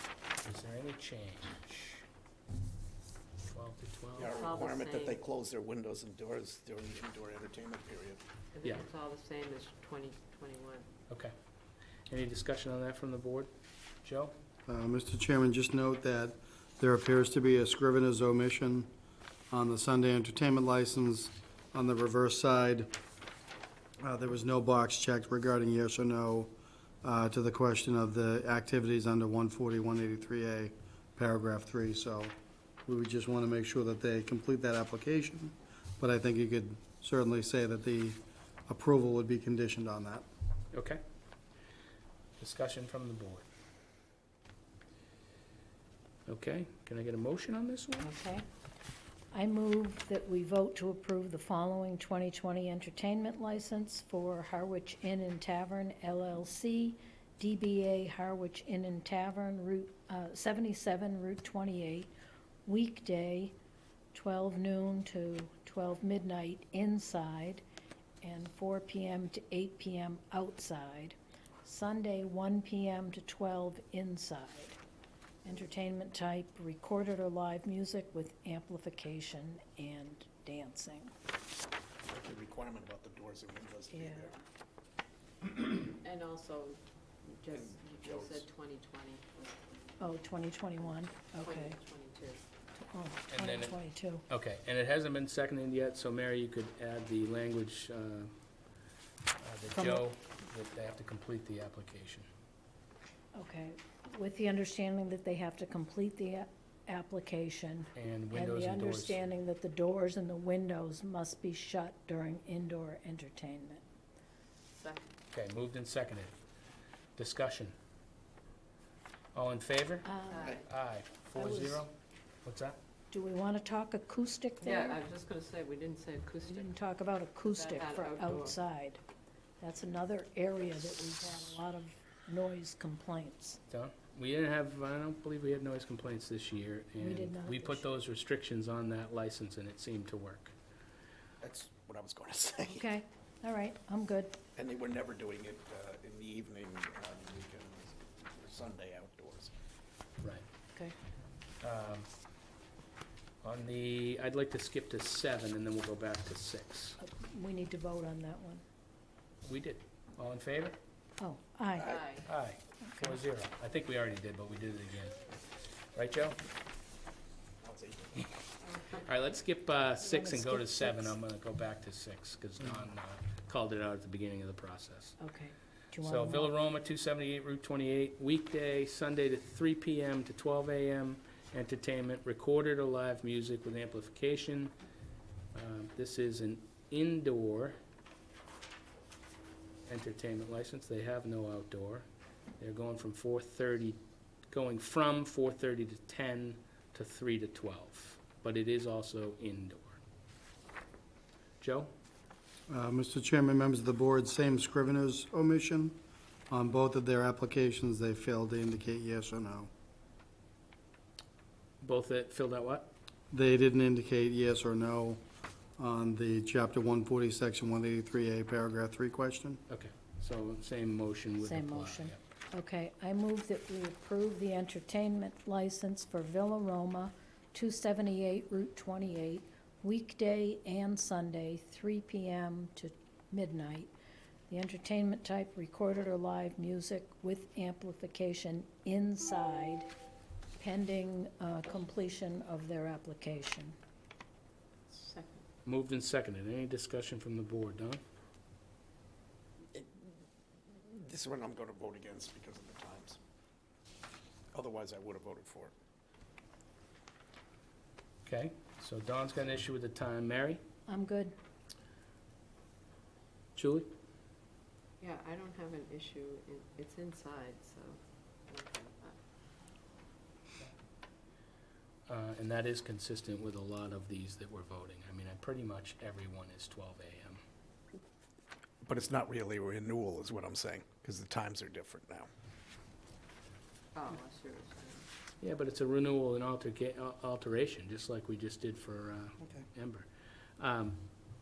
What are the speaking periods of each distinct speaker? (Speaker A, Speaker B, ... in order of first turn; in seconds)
Speaker A: 0.4-2.0, 3.5-4.3, 11.1-11.3, 12.1-13.5, 14.0-14.3, 40.7-41.0, 42.4-43.5, 46.2-48.1, 93.3-98.3, 99.4-102.3, 107.9-109.2, 115.3-116.3, 117.2-117.7, 119.3-121.9, 122.4-122.8, 133.7-140.5, 151.6-152.1, 153.4-157.0, 159.4-160.8, 162.2-165.2, 165.9-166.4, 168.9-175.2, 176.0-184.7, 185.5-187.8, 189.8-192.1, 192.6-200.0, 201.6-201.9, 211.8-212.9, 219.7-222.2, 245.7-248.0, 258.2-260.6, 263.6-263.9, 272.1-277.4, 285.4-291.0
Speaker B: 4.2-8.2, 82.1-84.3, 87.5-88.5, 141.4-142.8, 144.5-149.5, 167.6-168.2, 249.7-250.1, 250.8-253.2, 254.5-255.7, 278.9-282.3
Speaker C: 4.2-5.2, 8.5-10.9, 48.0-48.4, 85.5-89.9, 91.3-92.4, 114.8-115.0, 120.3-120.6, 124.6-126.7, 127.5-128.6, 161.8-162.3, 244.9-245.4, 265.0-269.2, 283.9-285.1
Speaker D: 14.7-18.9, 19.5-22.9, 24.0-32.3, 32.9-40.2, 202.7-209.7, 213.3-215.2, 215.8-219.6
Speaker E: 49.3-62.1, 62.7-63.5, 64.1-67.6, 68.2-74.8, 75.4-81.1, 83.9-84.3, 90.0-91.8, 92.8-94.2, 99.7-100.0, 103.3-113.8, 120.0-120.6, 121.3-121.8, 123.1-125.0, 126.5-129.0, 129.6-133.6, 137.0-137.9, 142.7-144.4, 157.0-158.6, 161.2-162.0, 162.8-163.2, 170.0-171.2, 175.2-176.5, 221.4-233.9, 234.5-239.9, 240.6-243.8, 260.9-261.3